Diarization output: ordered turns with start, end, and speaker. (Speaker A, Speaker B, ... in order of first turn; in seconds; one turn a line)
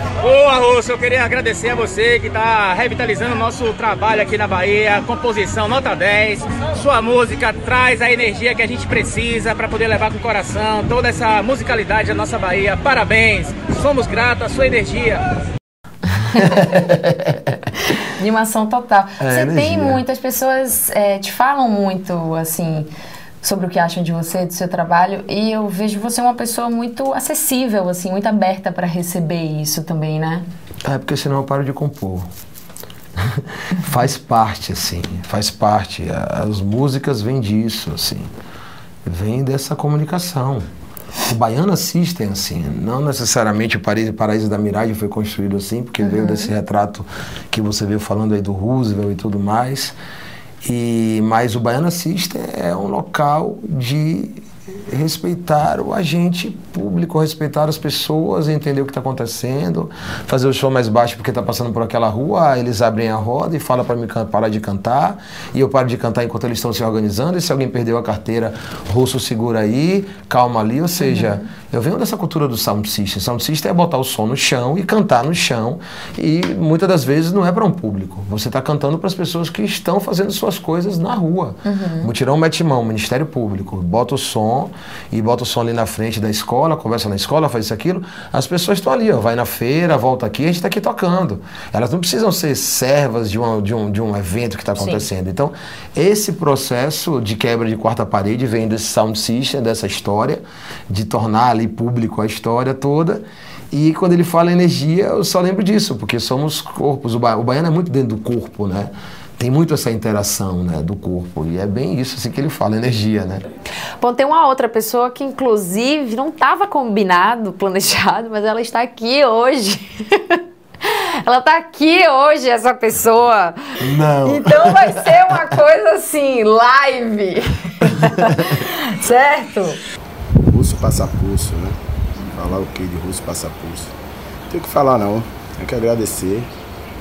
Speaker A: 0.2-15.2
Speaker B: 16.4-17.5
Speaker C: 18.0-22.9
Speaker B: 19.2-20.0
Speaker C: 23.4-30.5
Speaker B: 30.8-32.3
Speaker B: 33.2-38.3
Speaker B: 39.0-40.7
Speaker B: 41.2-50.0
Speaker C: 46.0-46.5
Speaker B: 50.6-113.4
Speaker C: 71.0-71.4
Speaker C: 81.7-82.1
Speaker C: 94.8-95.0
Speaker C: 114.0-129.8
Speaker B: 123.8-125.4
Speaker B: 128.0-128.4
Speaker D: 130.4-131.8
Speaker D: 132.3-133.9
Speaker D: 134.5-136.5